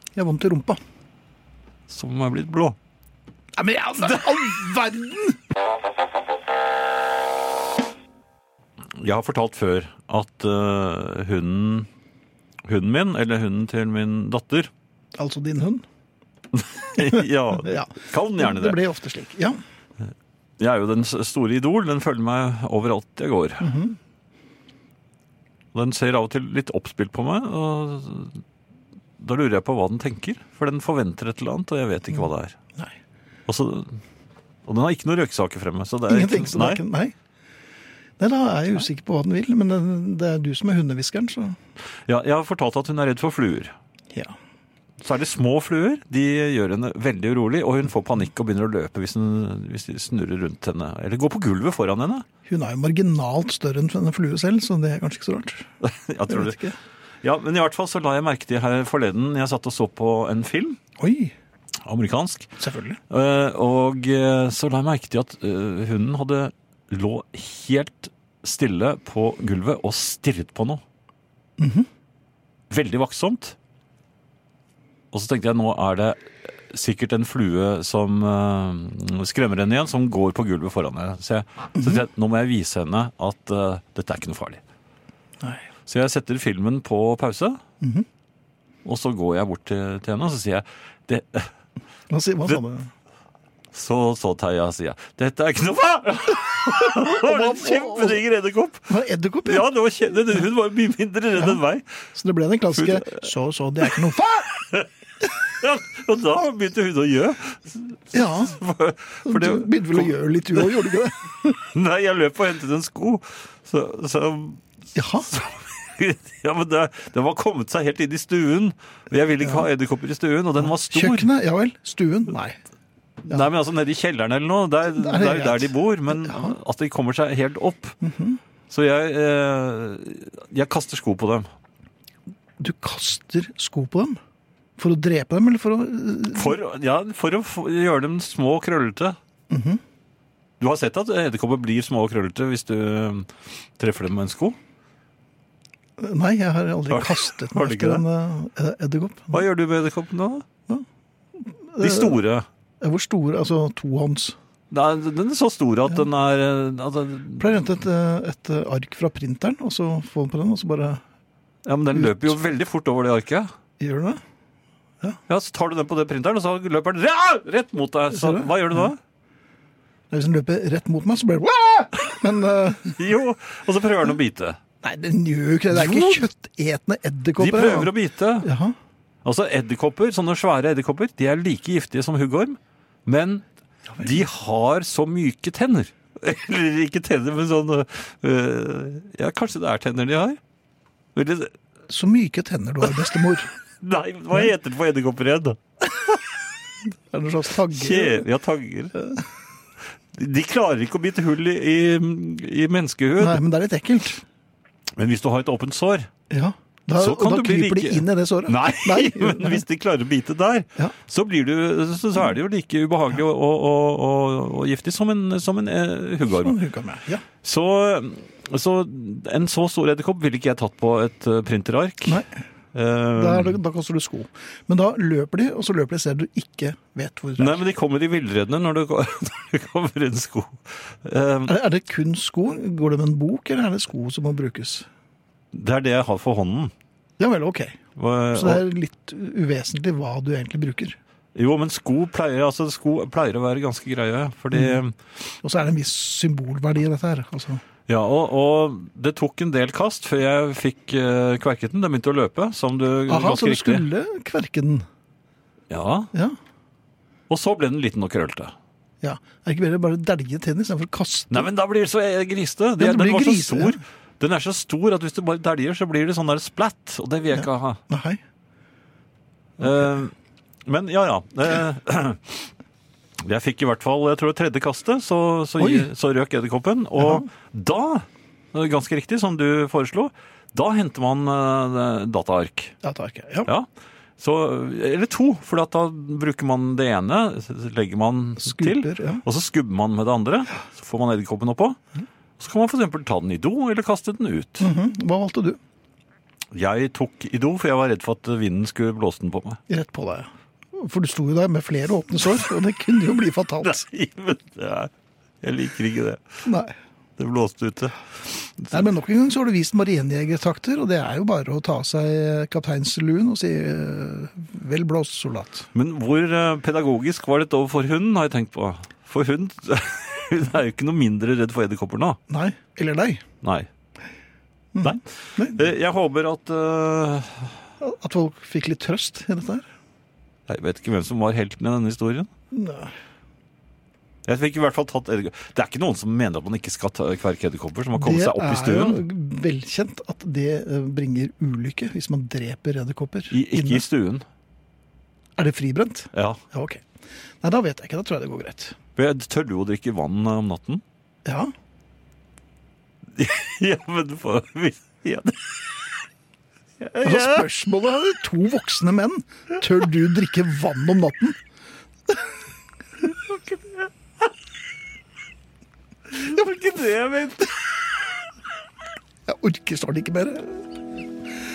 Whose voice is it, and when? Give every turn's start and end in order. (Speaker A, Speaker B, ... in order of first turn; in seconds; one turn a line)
Speaker A: 0.1-0.8
Speaker B: 1.9-2.8
Speaker A: 3.5-5.4
Speaker B: 9.0-11.9
Speaker B: 12.7-14.7
Speaker A: 15.2-15.8
Speaker B: 16.5-18.8
Speaker A: 17.0-19.6
Speaker B: 20.6-23.7
Speaker A: 23.6-24.0
Speaker B: 25.7-28.4
Speaker B: 29.2-32.5
Speaker B: 33.5-34.0
Speaker B: 34.6-36.8
Speaker A: 36.1-37.1
Speaker A: 38.2-41.6
Speaker B: 42.1-43.7
Speaker B: 45.0-52.2
Speaker A: 52.5-55.7
Speaker B: 55.8-56.6
Speaker A: 56.3-56.8
Speaker B: 57.2-60.8
Speaker A: 61.0-61.3
Speaker B: 61.8-62.5
Speaker A: 62.6-63.0
Speaker B: 63.1-70.8
Speaker A: 71.6-71.9
Speaker B: 72.7-73.5
Speaker B: 75.1-84.6
Speaker A: 85.4-85.7
Speaker B: 85.9-87.6
Speaker A: 87.8-88.0
Speaker B: 88.8-91.5
Speaker A: 92.1-92.9
Speaker B: 93.7-98.9
Speaker A: 96.8-98.2
Speaker A: 98.9-99.7
Speaker B: 99.4-101.8
Speaker A: 102.1-104.5
Speaker B: 102.8-103.2
Speaker B: 104.5-110.8
Speaker A: 108.1-108.5
Speaker A: 109.2-111.6
Speaker B: 111.7-114.6
Speaker A: 114.9-115.3
Speaker B: 115.2-121.3
Speaker A: 120.6-122.6
Speaker B: 123.2-128.0
Speaker A: 124.9-126.5
Speaker A: 128.0-128.4
Speaker B: 128.7-131.5
Speaker A: 132.6-134.2
Speaker A: 134.8-136.6
Speaker B: 136.3-139.2
Speaker A: 139.5-139.8
Speaker B: 140.6-144.6
Speaker A: 146.0-149.4
Speaker B: 146.9-148.0
Speaker B: 149.3-150.4
Speaker A: 151.4-152.2
Speaker B: 151.8-152.4
Speaker A: 152.8-154.3
Speaker B: 154.7-157.5
Speaker A: 157.4-161.0
Speaker B: 161.7-163.5
Speaker A: 161.9-162.3
Speaker A: 163.8-164.2
Speaker B: 165.3-169.0
Speaker A: 168.1-168.9
Speaker A: 170.1-173.0
Speaker B: 172.8-174.6
Speaker A: 174.8-178.8
Speaker B: 175.7-176.3
Speaker B: 177.4-178.5
Speaker B: 179.2-183.4
Speaker B: 184.0-190.4
Speaker B: 191.1-191.5
Speaker A: 191.9-193.5
Speaker B: 193.8-195.6
Speaker A: 196.8-198.3
Speaker B: 197.7-199.0
Speaker B: 200.1-203.4
Speaker A: 203.2-204.2
Speaker B: 205.0-206.1
Speaker A: 206.3-209.6
Speaker B: 206.9-216.6
Speaker A: 216.4-217.2
Speaker B: 217.4-223.6
Speaker A: 222.1-222.4
Speaker A: 223.2-227.6
Speaker B: 227.4-231.6
Speaker A: 231.5-234.9
Speaker B: 235.5-236.7
Speaker A: 237.2-237.8
Speaker B: 237.9-238.6
Speaker A: 238.3-241.0
Speaker B: 241.3-245.0
Speaker A: 244.5-244.8
Speaker A: 245.4-247.6
Speaker B: 247.9-253.8
Speaker A: 253.1-254.8
Speaker B: 255.7-256.1
Speaker B: 257.3-258.5
Speaker A: 259.0-261.5
Speaker B: 261.3-267.8
Speaker A: 262.8-263.8
Speaker A: 267.3-268.2
Speaker B: 269.6-270.1
Speaker B: 270.6-272.5
Speaker B: 273.2-282.8
Speaker A: 275.6-275.9
Speaker A: 277.0-277.3
Speaker A: 282.8-283.5
Speaker B: 284.2-291.8
Speaker A: 288.4-289.2
Speaker B: 292.4-294.7
Speaker A: 294.6-295.6
Speaker B: 296.5-299.6
Speaker A: 299.7-303.8
Speaker B: 303.6-304.9
Speaker B: 305.4-306.2
Speaker A: 306.4-306.7
Speaker B: 307.2-308.8
Speaker A: 308.7-315.7
Speaker B: 315.7-322.2
Speaker A: 322.3-323.2
Speaker B: 323.4-323.7
Speaker A: 324.7-325.6
Speaker B: 324.8-327.6
Speaker A: 327.8-329.7
Speaker B: 330.5-332.3
Speaker A: 332.5-332.9
Speaker B: 334.2-339.0
Speaker A: 337.9-343.8
Speaker B: 343.3-344.2
Speaker A: 345.4-346.8
Speaker B: 346.1-346.4
Speaker A: 347.4-348.8
Speaker B: 348.9-350.8
Speaker A: 351.2-351.5
Speaker B: 353.1-355.8
Speaker B: 356.8-357.5
Speaker A: 357.0-361.4
Speaker B: 363.0-363.9
Speaker B: 366.1-367.7
Speaker A: 369.2-370.7